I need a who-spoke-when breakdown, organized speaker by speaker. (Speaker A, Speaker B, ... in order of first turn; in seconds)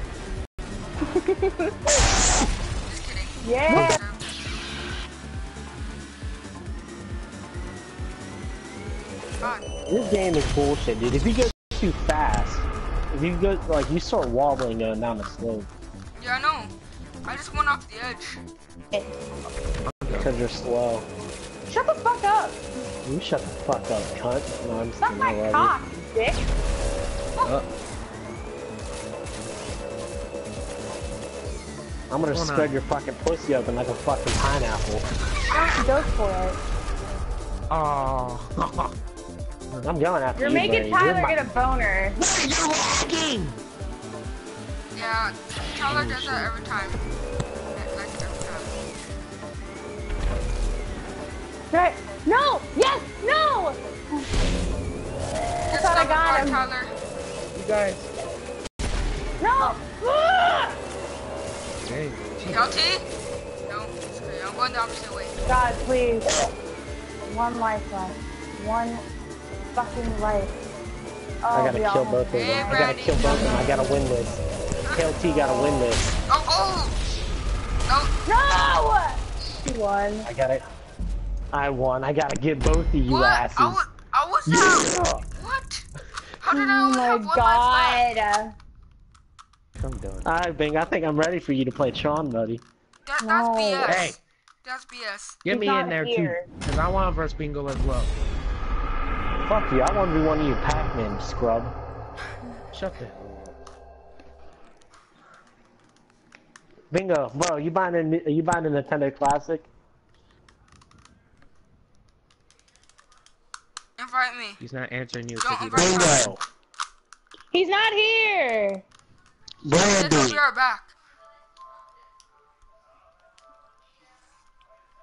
Speaker A: 1.1-1.7, 3.4-4.0, 21.7-22.6, 25.0-26.4, 35.5-36.6, 40.4-42.2, 51.7-54.3, 55.7-56.6, 59.4-60.8, 65.5-66.3, 67.2-69.0, 69.7-70.5, 71.4-73.8, 78.2-80.3, 86.5-88.5, 93.2-94.0, 95.5-96.5, 117.5-118.8
Speaker B: 2.9-4.3, 9.4-9.7, 16.2-16.7, 17.2-18.4, 44.9-47.0, 47.7-48.7, 55.7-56.9, 62.5-63.0, 63.7-65.3, 72.3-73.5, 76.3-77.0, 77.9-78.1, 83.1-85.8, 86.4-88.0, 93.0-95.4, 114.0-114.6, 115.4-116.3, 119.7-120.9
Speaker C: 3.7-4.0, 9.9-15.7, 20.1-21.1, 23.0-25.8, 32.1-35.0, 39.8-41.4, 71.5-76.1, 80.2-80.7, 81.5-83.8, 84.5-85.2, 90.2-92.6, 99.5-101.7, 106.9-109.7, 116.0-116.4
Speaker D: 19.8-20.3, 32.3-32.8, 37.7-38.9, 42.2-43.6, 45.9-46.5, 57.5-58.1, 61.8-62.8, 89.8-90.3, 93.8-94.2, 95.4-98.1, 102.7-103.5, 114.6-116.4, 119.6-120.4